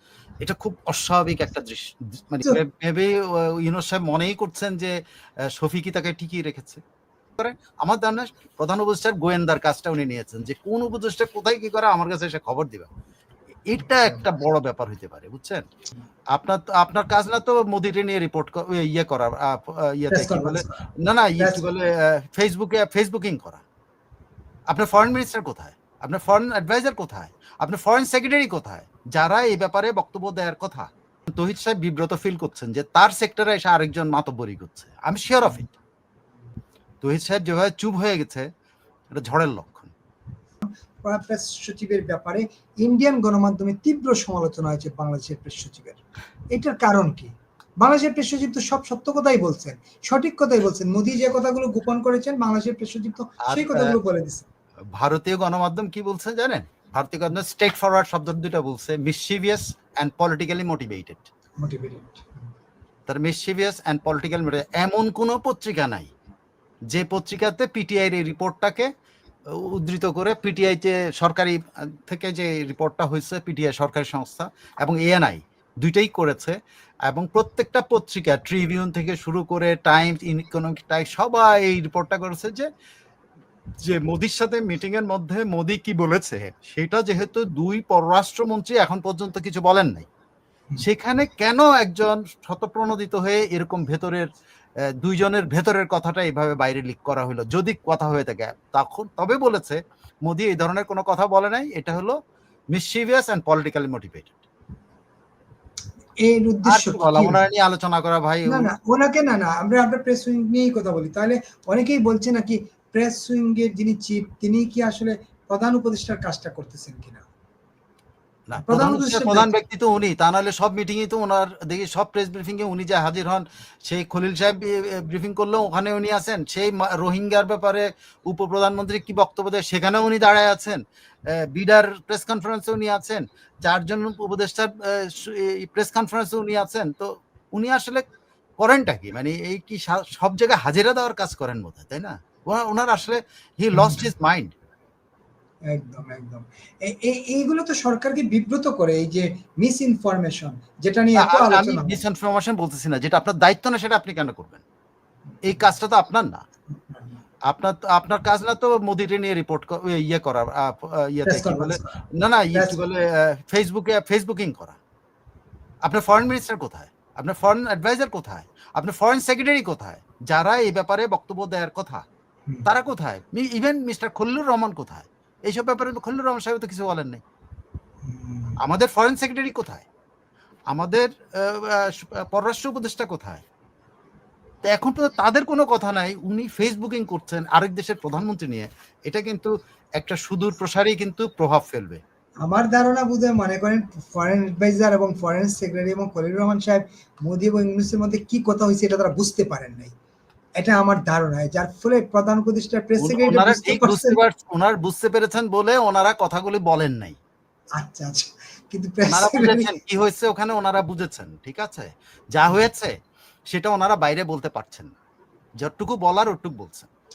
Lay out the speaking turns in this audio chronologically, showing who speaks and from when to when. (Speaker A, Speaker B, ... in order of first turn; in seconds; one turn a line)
Speaker A: 0.4-5.0
Speaker A: 5.5-6.8
Speaker A: 7.4-12.9
Speaker A: 13.7-15.6
Speaker A: 16.3-23.6
Speaker B: 20.1-20.8
Speaker B: 21.4-21.6
Speaker A: 24.7-35.7
Speaker A: 37.0-38.5
Speaker A: 39.1-39.9
Speaker B: 40.6-46.0
Speaker B: 46.5-54.5
Speaker A: 53.5-54.0
Speaker A: 55.0-61.3
Speaker B: 61.6-62.3
Speaker A: 63.1-66.1
Speaker A: 66.9-68.9
Speaker A: 69.5-76.6
Speaker A: 77.1-82.7
Speaker A: 83.8-90.1
Speaker A: 90.8-94.3
Speaker A: 95.0-102.2
Speaker A: 102.7-104.3
Speaker B: 106.2-107.4
Speaker A: 106.7-108.7
Speaker B: 108.5-117.2
Speaker A: 118.5-130.8
Speaker B: 118.6-119.5
Speaker A: 131.3-138.0
Speaker A: 138.6-144.5
Speaker B: 143.7-144.0
Speaker B: 145.7-152.0
Speaker A: 151.2-154.6
Speaker A: 155.4-156.4
Speaker B: 156.7-157.2
Speaker A: 157.5-164.8
Speaker B: 161.3-162.0
Speaker B: 162.5-162.8
Speaker A: 165.8-172.0
Speaker A: 172.7-177.2
Speaker B: 178.1-178.6
Speaker A: 178.6-179.9
Speaker A: 180.7-183.4
Speaker A: 184.7-192.0
Speaker B: 192.4-199.9
Speaker B: 200.6-204.2
Speaker A: 203.0-207.2
Speaker B: 207.8-209.7
Speaker A: 209.1-212.9
Speaker A: 213.5-214.9
Speaker A: 215.6-216.9